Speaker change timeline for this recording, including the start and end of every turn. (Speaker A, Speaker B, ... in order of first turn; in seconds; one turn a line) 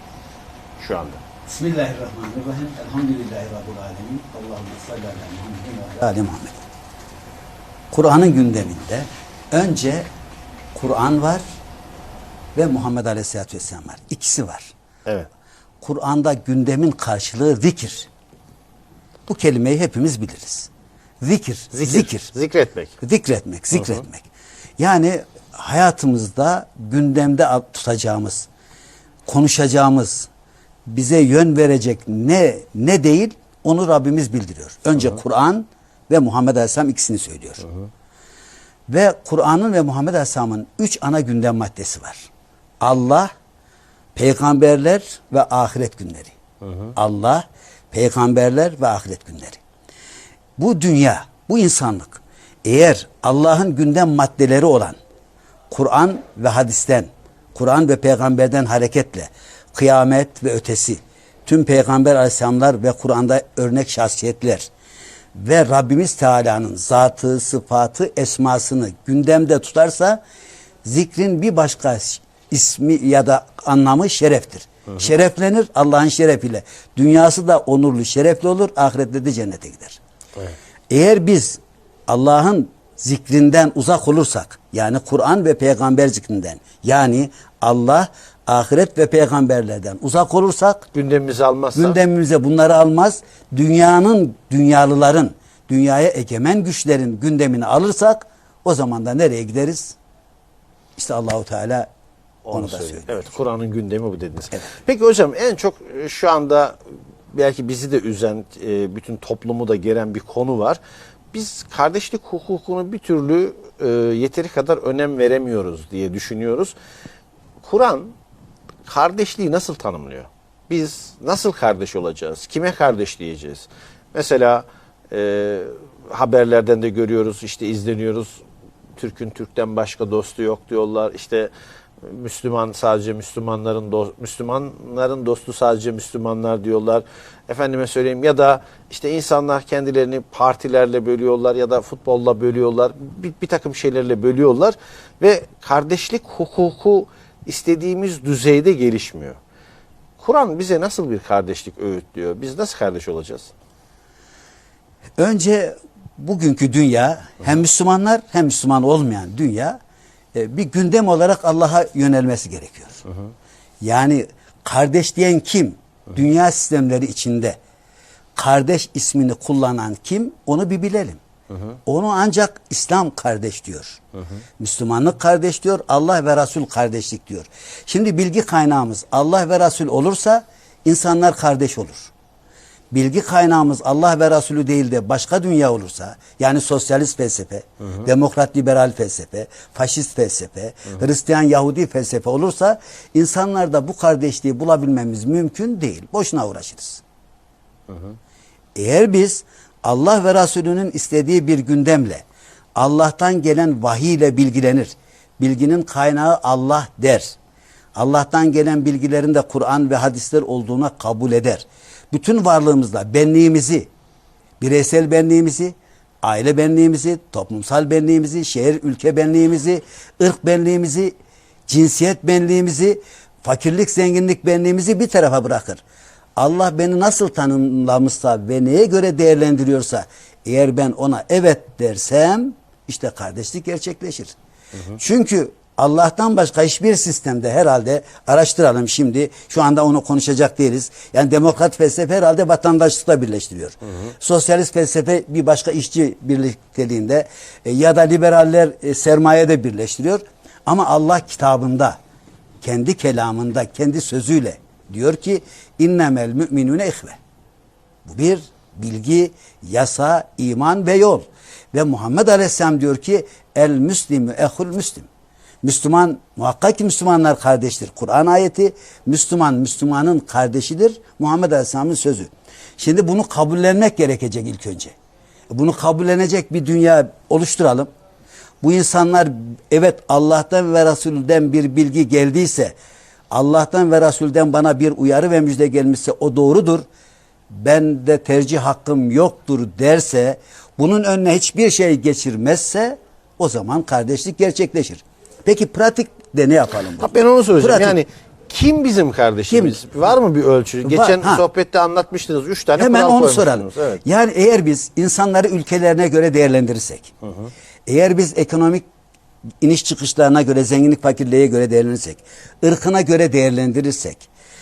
Speaker A: 0.8-1.2
Speaker B: 1.5-6.6
Speaker B: 7.9-10.1
Speaker B: 10.8-11.4
Speaker B: 12.6-14.7
Speaker B: 15.8-18.1
Speaker B: 19.3-20.7
Speaker B: 21.2-22.3
Speaker A: 21.7-22.9
Speaker B: 23.0-28.5
Speaker B: 29.3-30.3
Speaker B: 30.9-37.6
Speaker B: 38.9-42.3
Speaker B: 42.8-43.3
Speaker B: 44.2-46.3
Speaker B: 47.0-49.6
Speaker B: 50.6-55.0
Speaker B: 55.7-64.7
Speaker B: 65.3-70.2
Speaker B: 70.8-80.0
Speaker B: 80.9-90.9
Speaker A: 90.9-92.0
Speaker B: 91.8-100.0
Speaker B: 101.0-101.9
Speaker A: 102.5-106.8
Speaker B: 102.5-103.3
Speaker A: 107.3-110.8
Speaker A: 111.3-116.8
Speaker A: 117.6-118.1
Speaker A: 118.9-128.4
Speaker A: 129.0-149.4
Speaker A: 150.2-153.5
Speaker B: 155.2-159.8
Speaker B: 160.3-163.0
Speaker B: 163.8-167.6
Speaker B: 168.4-171.2
Speaker B: 171.9-174.0
Speaker B: 174.6-182.1
Speaker B: 182.9-197.0
Speaker B: 198.8-202.2
Speaker B: 202.8-207.3
Speaker B: 207.9-213.9
Speaker B: 214.6-221.1
Speaker B: 221.7-225.8
Speaker B: 226.4-234.3
Speaker B: 234.9-252.0
Speaker B: 252.6-257.2
Speaker B: 258.1-265.1
Speaker B: 265.6-274.9
Speaker B: 275.5-277.9
Speaker B: 278.6-282.7
Speaker B: 283.3-286.9
Speaker B: 287.5-298.0
Speaker A: 297.0-304.0
Speaker B: 299.5-299.9
Speaker B: 300.9-301.4
Speaker B: 302.8-307.1
Speaker B: 307.9-308.8
Speaker B: 309.6-314.3